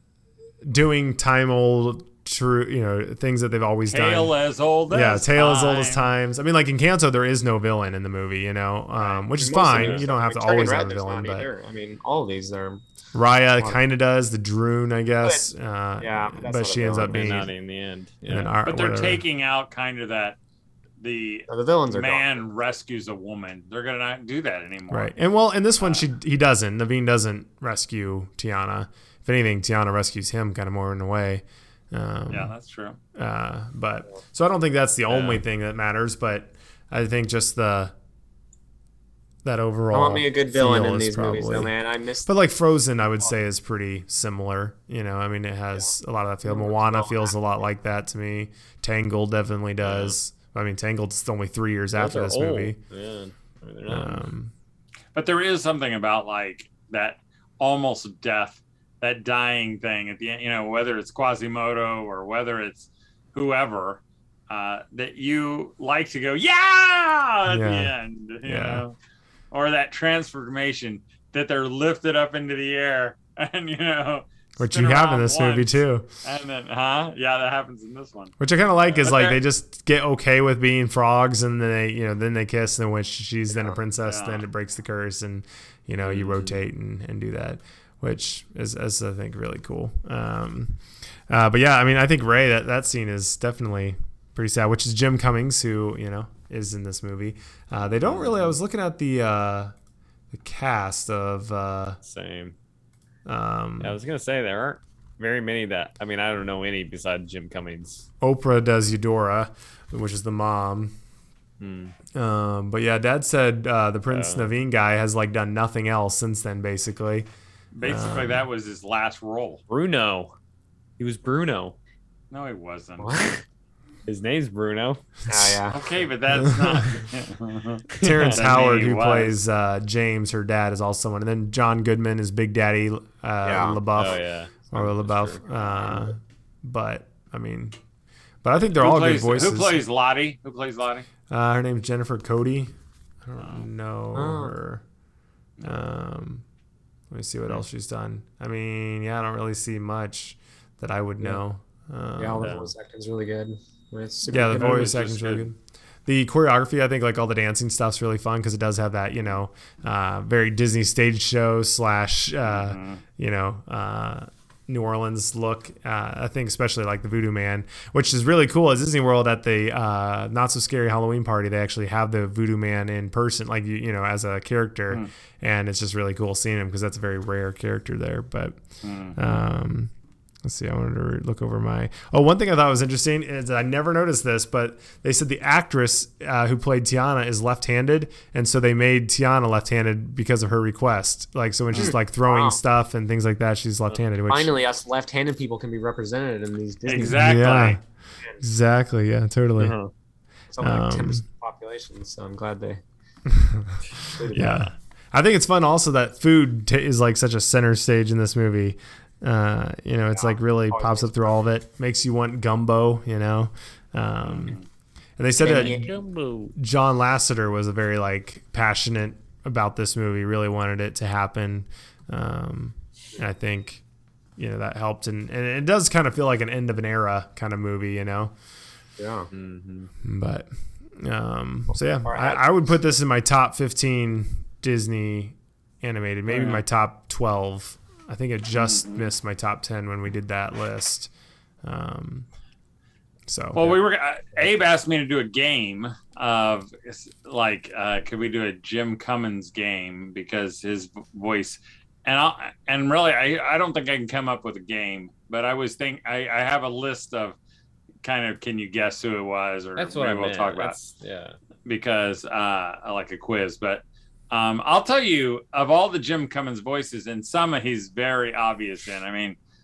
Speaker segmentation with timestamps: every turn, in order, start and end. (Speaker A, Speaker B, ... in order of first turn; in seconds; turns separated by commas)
Speaker A: 0.6-4.3, Speaker B: 3.9-6.1, Speaker A: 4.9-11.5, Speaker C: 9.0-12.8, Speaker D: 9.6-10.1, Speaker A: 13.1-17.5, Speaker C: 16.0-17.5, Speaker D: 17.0-18.6, Speaker A: 18.3-19.2, Speaker B: 18.6-20.4, Speaker B: 21.0-25.1, Speaker C: 21.5-22.5, Speaker A: 24.9-32.5, Speaker B: 32.3-33.0, Speaker A: 33.1-37.9, Speaker A: 39.4-41.7, Speaker C: 39.9-42.3, Speaker A: 42.3-52.8, Speaker C: 46.5-47.4, Speaker D: 52.0-54.3, Speaker A: 53.9-54.5, Speaker B: 55.1-69.0, Speaker A: 67.5-68.8, Speaker B: 69.5-78.3, Speaker A: 74.6-76.1, Speaker A: 78.4-99.8, Speaker B: 79.0-79.4, Speaker C: 83.5-83.8, Speaker B: 84.1-84.4, Speaker D: 86.0-86.6, Speaker D: 98.0-98.6, Speaker A: 100.3-102.0, Speaker D: 102.0-102.6, Speaker A: 103.3-104.0, Speaker D: 103.8-108.1, Speaker A: 108.2-111.0, Speaker D: 111.6-111.9, Speaker A: 112.2-117.3, Speaker D: 114.1-114.5, Speaker B: 117.7-119.6, Speaker A: 117.8-118.5, Speaker D: 119.7-120.3, Speaker D: 121.0-121.8, Speaker B: 122.3-123.2, Speaker C: 123.0-123.4, Speaker D: 124.1-125.0, Speaker C: 125.3-125.8, Speaker B: 125.7-129.4, Speaker A: 126.4-126.9, Speaker A: 128.0-137.8, Speaker D: 128.1-128.4, Speaker C: 133.4-133.8, Speaker D: 134.0-135.4, Speaker A: 138.4-139.8, Speaker B: 138.8-141.1, Speaker A: 141.3-142.7, Speaker A: 143.2-144.8, Speaker C: 144.2-144.5, Speaker A: 145.6-146.4, Speaker A: 147.1-152.6, Speaker C: 152.2-154.9, Speaker D: 152.4-152.7, Speaker A: 154.3-194.5, Speaker B: 154.4-155.5, Speaker B: 162.4-163.0, Speaker B: 178.8-179.2, Speaker C: 191.7-192.6, Speaker C: 194.3-197.6, Speaker B: 196.8-197.8, Speaker A: 197.0-197.8, Speaker A: 198.4-199.8, Speaker D: 199.6-199.9, Speaker C: 200.5-202.8, Speaker A: 200.6-201.2, Speaker A: 203.3-203.8, Speaker C: 204.1-204.6, Speaker D: 204.3-204.7, Speaker A: 204.3-214.6, Speaker C: 210.2-211.2, Speaker B: 214.2-214.7, Speaker A: 215.2-215.9, Speaker C: 215.5-215.9, Speaker D: 215.6-216.5, Speaker A: 216.6-223.8, Speaker A: 224.4-228.3, Speaker C: 229.0-229.3, Speaker D: 229.3-229.9, Speaker A: 230.0-241.1, Speaker C: 231.7-232.5, Speaker D: 236.3-236.6, Speaker B: 238.5-239.1, Speaker A: 241.6-242.3, Speaker A: 243.3-243.8, Speaker B: 243.5-257.4, Speaker B: 258.0-260.8, Speaker D: 259.8-261.4, Speaker B: 261.7-269.4